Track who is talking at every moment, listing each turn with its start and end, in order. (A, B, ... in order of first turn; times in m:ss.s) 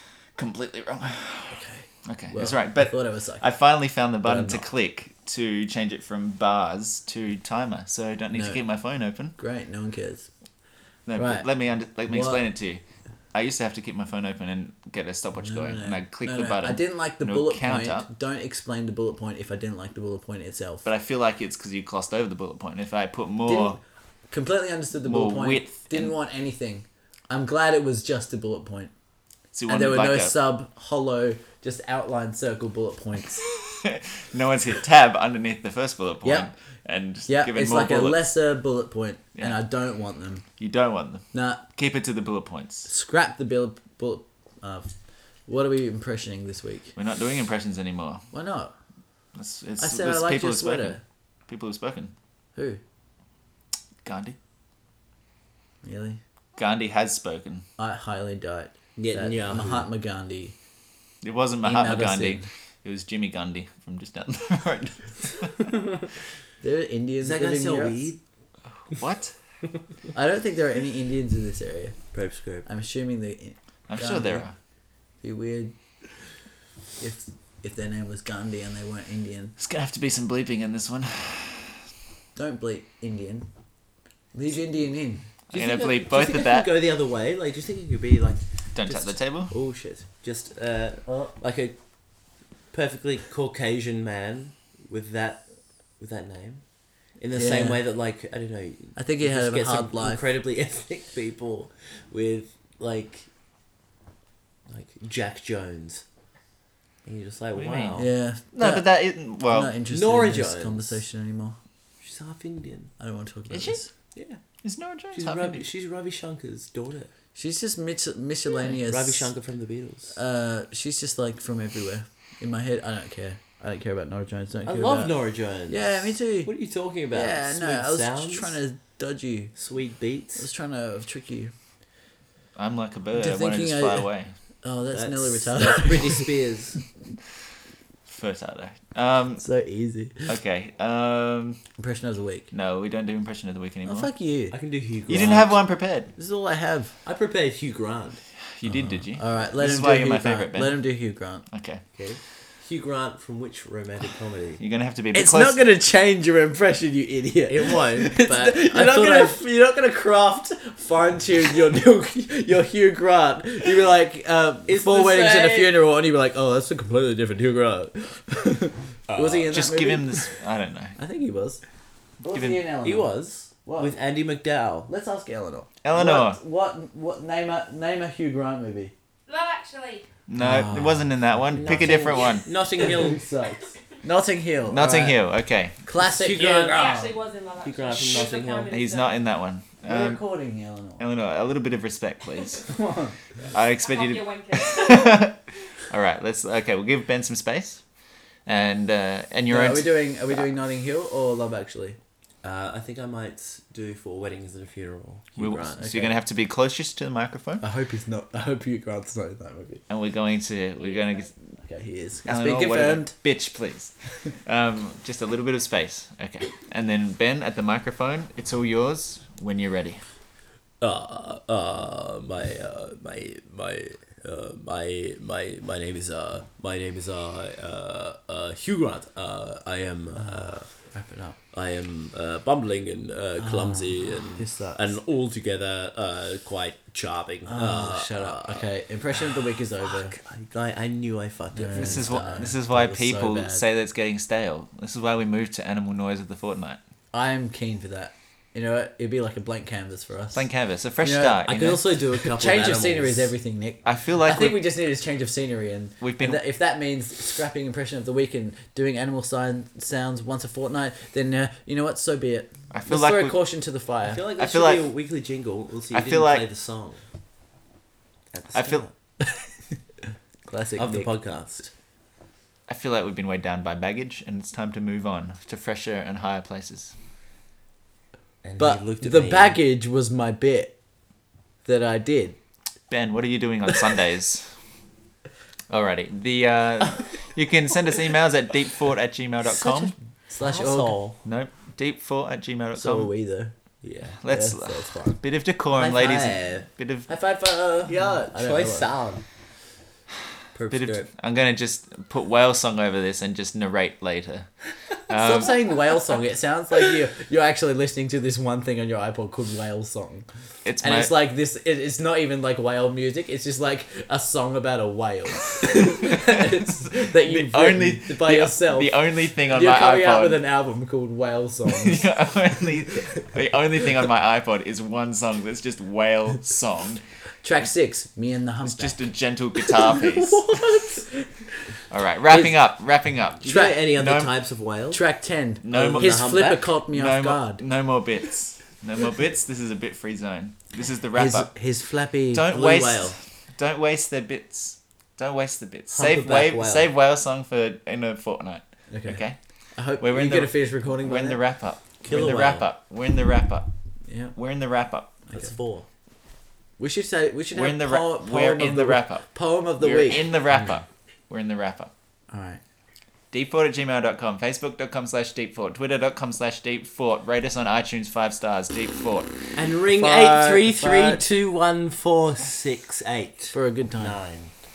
0:00.4-0:09.4 A
0:01.5-0:03.4 B
0:04.2-0:04.6 B
0:08.3-0:08.6 B
0:09.4-0:10.3 B
0:11.1-0:12.8 A
0:11.2-0:11.4 B
0:12.1-0:12.4 B
0:13.3-0:18.1 A
0:15.4-0:20.8 B
0:20.8-0:23.8 A
0:23.5-0:23.8 B
0:24.3-0:28.9 B
0:25.0-0:26.1 A
0:29.5-0:30.3 A
0:29.7-0:33.4 B
0:33.4-0:38.2 A
0:36.2-0:36.5 B
0:37.3-0:40.4 B
0:40.6-0:42.9 A
0:41.3-0:41.6 B
0:42.9-0:44.9 B
0:45.5-0:46.9 B
0:47.0-0:48.3 A
0:48.3-0:48.7 B
0:49.3-0:52.1 A
0:49.8-0:51.0 B
0:52.5-0:52.8 B
0:54.0-0:54.4 A
0:55.8-0:56.2 B
0:56.6-0:57.6 A
0:57.8-1:00.5 B
0:59.0-0:59.9 C
1:01.2-1:05.6 A
1:01.6-1:02.5 B
1:06.6-1:08.1 B
1:07.2-1:08.2 C
1:08.8-1:09.3 A
1:10.1-1:12.0 B
1:12.1-1:12.7 C
1:12.6-1:14.5 B
1:13.9-1:14.5 A
1:15.2-1:15.7 B
1:17.0-1:19.6 B
1:19.6-1:21.8 A
1:22.4-1:23.5 B
1:24.3-1:25.3 B
1:25.5-1:31.8 C
1:25.5-1:26.7 A
1:28.7-1:29.5 A
1:31.0-1:31.3 B
1:32.7-1:36.6 C
1:37.2-1:43.3 C
1:37.3-1:37.8 B
1:39.0-1:40.2 B
1:44.7-1:46.0 C
1:47.0-1:48.1 C
1:47.5-1:49.8 A
1:48.0-1:48.9 B
1:49.4-1:51.6 B
1:49.9-1:51.0 C
1:52.0-1:52.9 C
1:53.0-1:53.9 B
1:53.5-1:53.8 A
1:54.1-1:54.4 C
1:54.6-1:55.6 A
1:55.1-1:57.1 C
1:57.3-1:59.3 B
1:58.6-2:00.2 C
2:00.1-2:05.1 B
2:04.6-2:08.6 C
2:05.7-2:06.5 B
2:07.1-2:09.6 B
2:09.6-2:10.5 C
2:10.4-2:11.5 B
2:12.6-2:14.3 A
2:13.1-2:14.1 B
2:14.6-2:16.3 B
2:14.9-2:16.8 C
2:18.1-2:19.4 A
2:19.4-2:20.3 B
2:20.3-2:21.6 A
2:21.8-2:22.5 B
2:22.5-2:24.1 A
2:23.8-2:24.6 B
2:24.5-2:25.6 C
2:25.1-2:26.1 A
2:26.2-2:26.9 B
2:27.0-2:28.2 C
2:28.5-2:30.8 A
2:28.6-2:31.4 B
2:31.5-2:31.8 A
2:31.9-2:34.6 C
2:34.6-2:35.6 A
2:35.1-2:50.3 B
2:37.5-2:39.4 C
2:44.7-2:45.8 C
2:49.1-2:49.7 C
2:49.5-2:51.0 A
2:51.0-2:51.6 B
2:52.2-2:53.1 B
2:52.3-2:52.6 A
2:52.8-2:54.9 C
2:53.6-2:53.9 B
2:54.9-2:58.9 B
2:55.8-2:56.4 A
2:59.3-3:00.1 D
3:00.3-3:02.5 A
3:00.4-3:02.0 B
3:01.5-3:03.2 C
3:02.0-3:02.8 D
3:02.8-3:05.2 B
3:04.7-3:05.8 A
3:05.8-3:07.1 B
3:06.0-3:08.7 C
3:06.3-3:09.2 D
3:08.7-3:10.2 A
3:09.8-3:11.0 B
3:11.0-3:12.8 A
3:12.7-3:13.2 B
3:13.5-3:17.8 A
3:13.7-3:15.3 D
3:18.4-3:20.4 A
3:19.5-3:22.0 B
3:22.4-3:26.0 C
3:25.4-3:27.6 A
3:25.8-3:26.1 B
3:27.6-3:29.8 B
3:29.9-3:31.4 A
3:31.6-3:33.1 B
3:32.2-3:40.0 A
3:40.8-3:50.7 C
3:50.1-3:51.4 B
3:51.5-3:58.6 C
3:53.4-3:54.9 B
3:57.5-4:00.1 B
3:59.2-4:02.5 C
4:01.5-4:03.6 B
4:01.7-4:06.8 A
4:07.1-4:10.4 B
4:10.3-4:11.9 A
4:11.0-4:24.2 B
4:11.4-4:13.3 C
4:13.8-4:14.6 A
4:16.0-4:16.4 A
4:22.7-4:23.4 A
4:24.0-4:27.0 C
4:24.4-4:24.9 A
4:25.9-4:26.5 A
4:28.3-4:28.9 C
4:28.5-4:28.9 A
4:29.2-4:29.5 B
4:30.5-4:31.1 B
4:30.8-4:31.7 C
4:32.7-4:36.9 A
4:38.4-4:39.6 C
4:38.6-4:40.7 B
4:41.6-4:42.4 B
4:42.9-4:44.5 A
4:45.7-4:49.9 A
4:49.6-4:51.0 B
4:50.4-4:51.2 C
4:51.2-4:53.1 A
4:52.7-4:53.5 B
4:53.8-4:54.2 C
4:54.2-4:57.1 A
4:54.2-4:55.2 B
4:55.7-4:56.7 C
4:57.1-4:58.9 B
4:57.9-4:59.2 C
5:00.5-5:01.1 C
5:00.7-5:04.5 A
5:05.1-5:05.6 A
5:05.1-5:10.3 B
5:10.6-5:11.1 A
5:10.8-5:22.1 B
5:15.8-5:16.4 A
5:17.0-5:20.4 A
5:21.7-5:27.0 A
5:22.9-5:23.2 B
5:27.4-5:29.0 B
5:28.6-5:30.6 A
5:29.6-5:31.7 B
5:31.9-5:34.3 A
5:32.3-5:32.5 B
5:33.4-5:35.0 C
5:33.4-5:33.8 B
5:34.9-5:37.6 B
5:35.6-5:41.5 A
5:35.7-5:36.7 C
5:41.2-5:42.5 B
5:42.3-5:49.4 A
5:42.4-5:43.2 C
5:45.9-5:46.9 C
5:48.9-5:49.2 B
5:49.7-5:51.4 B
5:50.0-5:53.7 A
5:52.0-5:52.6 C
5:54.1-5:54.3 B
5:54.3-5:55.2 A
5:55.3-5:55.9 C
5:56.8-6:00.2 B
5:57.5-6:01.9 A
6:02.3-6:02.6 B
6:03.3-6:09.6 A
6:09.5-6:14.5 C
6:09.9-6:11.2 B
6:13.5-6:14.2 B